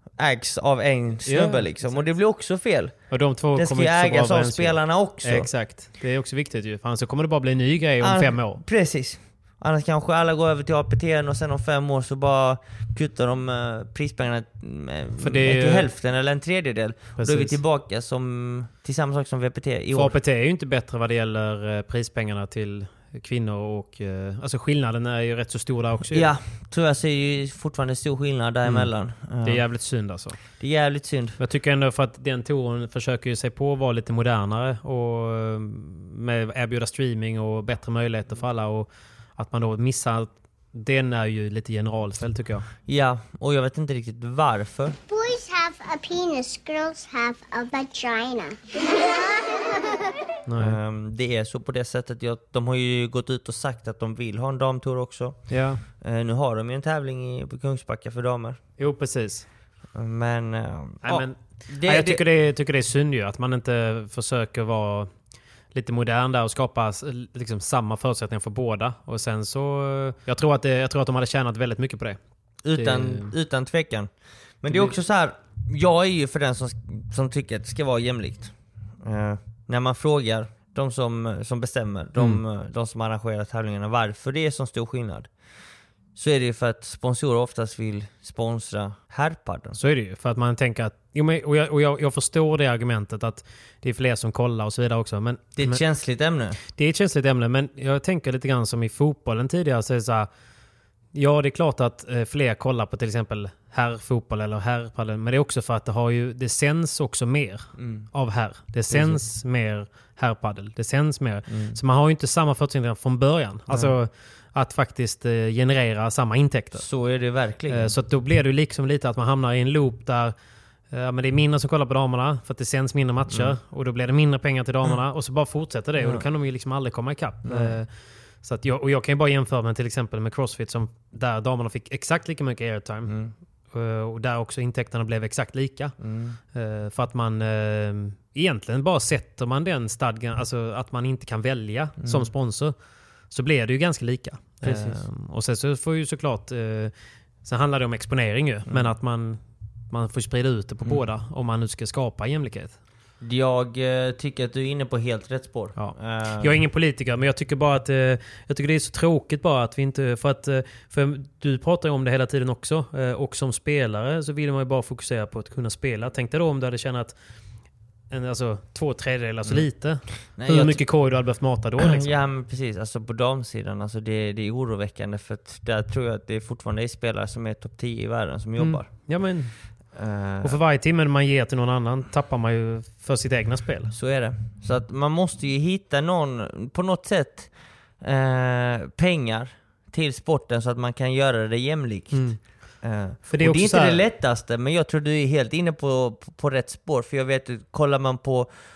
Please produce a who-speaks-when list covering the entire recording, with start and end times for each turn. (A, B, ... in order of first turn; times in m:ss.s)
0:00.2-0:05.5 A
0:01.3-0:02.1 B
0:03.1-0:08.6 B
0:08.0-0:20.2 A
0:15.2-0:15.9 B
0:17.2-0:17.6 B
0:19.9-0:26.3 B
0:26.1-0:29.6 A
0:29.4-0:30.4 B
0:30.6-0:31.4 A
0:31.4-0:42.6 B
0:42.9-0:45.0 A
0:45.1-0:48.6 C
0:50.5-0:50.8 B
0:50.6-0:55.5 A
0:55.5-0:55.8 B
0:56.0-0:58.6 A
0:58.8-0:59.5 B
1:00.0-1:02.2 A
1:01.0-1:05.1 B
1:05.7-1:12.2 B
1:12.6-1:14.1 A
1:12.8-1:13.3 B
1:14.6-1:25.3 A
1:14.7-1:15.0 B
1:26.2-1:29.8 A
1:29.8-1:35.8 B
1:35.6-1:36.6 A
1:36.7-1:40.3 B
1:41.2-1:56.8 B
1:47.8-1:48.1 A
1:48.9-1:49.2 A
1:51.5-1:51.8 A
1:56.8-1:57.9 A
1:57.7-2:00.3 B
2:00.9-2:07.9 B
2:03.3-2:03.6 A
2:06.0-2:06.2 A
2:07.5-2:07.8 A
2:08.4-2:13.1 B
2:13.1-2:13.3 A
2:13.7-2:16.0 B
2:16.0-2:16.4 A
2:16.5-2:22.8 B
2:22.0-2:22.3 A
2:23.3-2:26.9 B
2:24.6-2:25.0 A
2:27.4-2:32.7 B
2:33.2-2:36.6 A
2:35.8-2:47.2 B
2:48.1-2:52.1 B
2:50.4-2:50.8 A
2:51.8-2:58.9 A
2:58.6-2:59.5 B
3:00.0-3:00.6 A
3:00.4-3:03.9 B
3:03.9-3:07.5 A
3:08.0-3:18.5 A
3:12.1-3:12.4 B
3:13.3-3:14.0 B